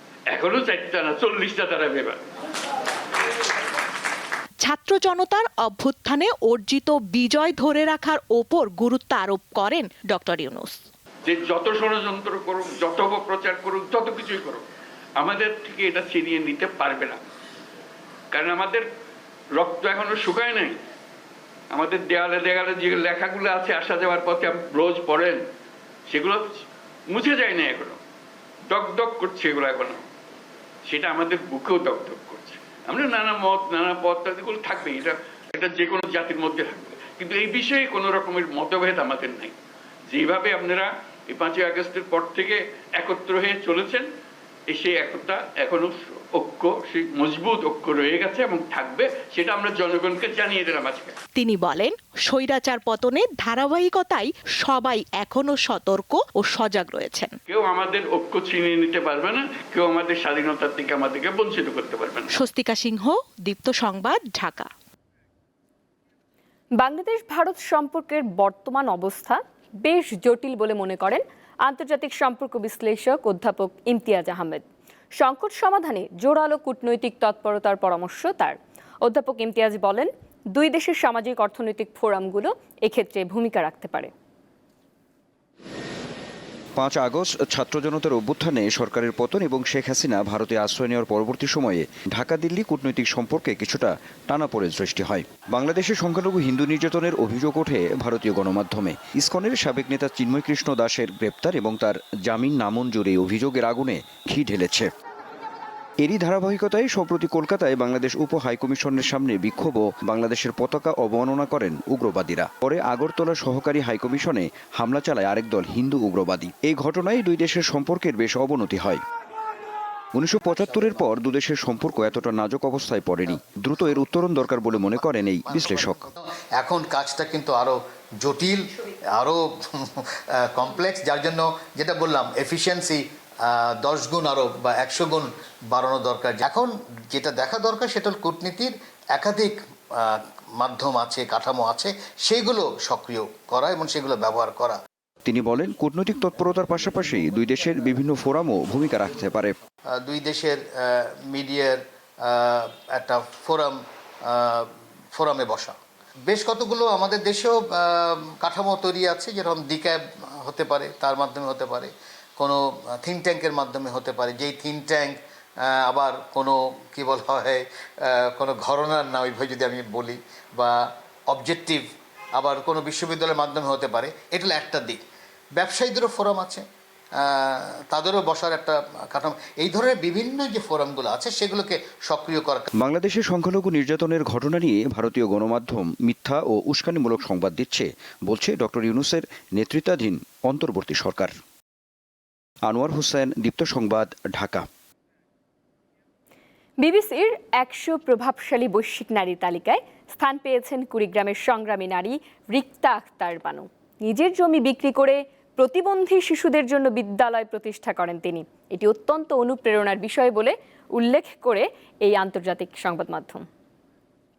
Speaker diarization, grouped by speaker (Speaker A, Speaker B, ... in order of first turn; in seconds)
Speaker A: 0.3-2.2, 11.2-14.6, 15.2-17.2, 18.3-18.9, 19.6-20.8, 21.7-25.4, 26.1-28.0, 28.7-30.0, 30.9-39.5, 40.1-44.1, 44.7-51.2, 57.5-62.3
Speaker B: 4.6-10.8, 51.4-57.3, 62.3-64.7
Speaker C: 66.8-74.6, 75.2-84.1, 196.8-213.4
Speaker D: 86.8-104.9, 106.0-119.0, 120.2-126.1, 145.2-149.6, 182.8-191.3, 192.7-194.7
Speaker E: 125.5-129.8, 130.5-144.8, 150.0-155.7, 156.3-171.8, 172.3-175.0, 175.6-176.6, 177.2-182.7